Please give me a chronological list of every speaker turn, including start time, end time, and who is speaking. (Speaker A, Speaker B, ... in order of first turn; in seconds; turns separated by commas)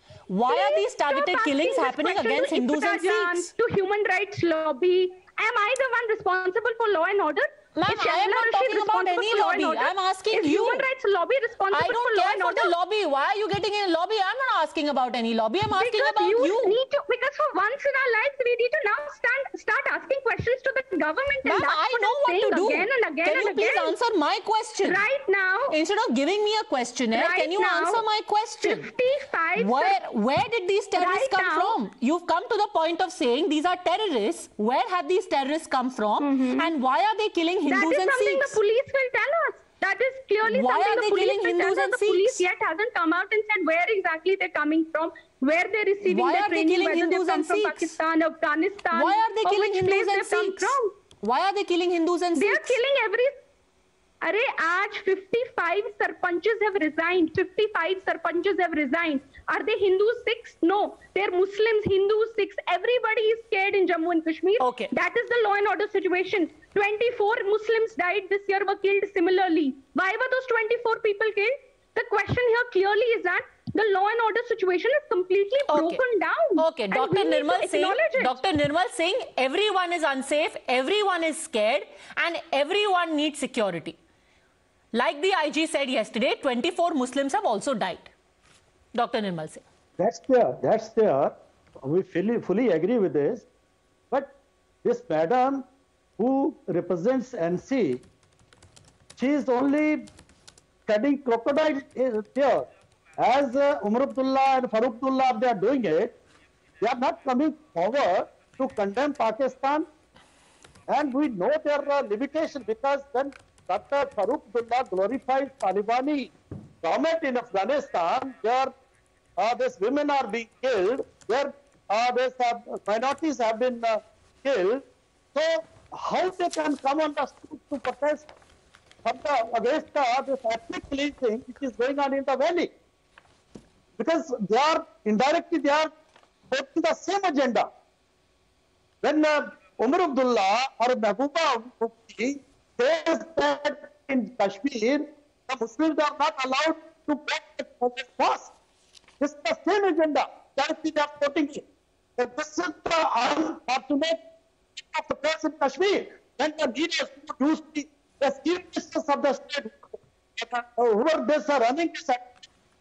Speaker A: 0.3-3.5, Speaker B: 0.5-12.7, Speaker A: 7.7-10.8, Speaker A: 11.7-16.8, Speaker B: 15.8-23.9, Speaker A: 21.4-25.0, Speaker B: 24.8-25.8, Speaker A: 25.7-28.9, Speaker B: 27.1-28.0, Speaker B: 28.6-30.0, Speaker A: 29.6-38.6, Speaker B: 30.9-31.8, Speaker B: 36.2-36.7, Speaker B: 37.7-50.9, Speaker A: 40.5-42.5, Speaker A: 46.0-48.0, Speaker A: 48.9-52.8, Speaker B: 52.4-53.4, Speaker B: 54.2-78.3, Speaker A: 64.6-64.9, Speaker A: 75.7-76.0, Speaker A: 76.6-84.0, Speaker A: 84.9-88.1, Speaker A: 88.9-89.6, Speaker C: 90.0-93.5, Speaker C: 94.8-95.7, Speaker C: 96.2-98.0, Speaker C: 99.2-100.1, Speaker C: 100.9-102.7, Speaker C: 103.2-106.2, Speaker C: 106.8-109.9, Speaker C: 110.9-118.7, Speaker C: 119.4-128.3, Speaker C: 129.0-132.7, Speaker C: 134.0-135.9, Speaker C: 136.5-137.7, Speaker C: 139.0-148.5, Speaker C: 149.2-151.6, Speaker C: 152.2-154.2, Speaker C: 154.8-162.3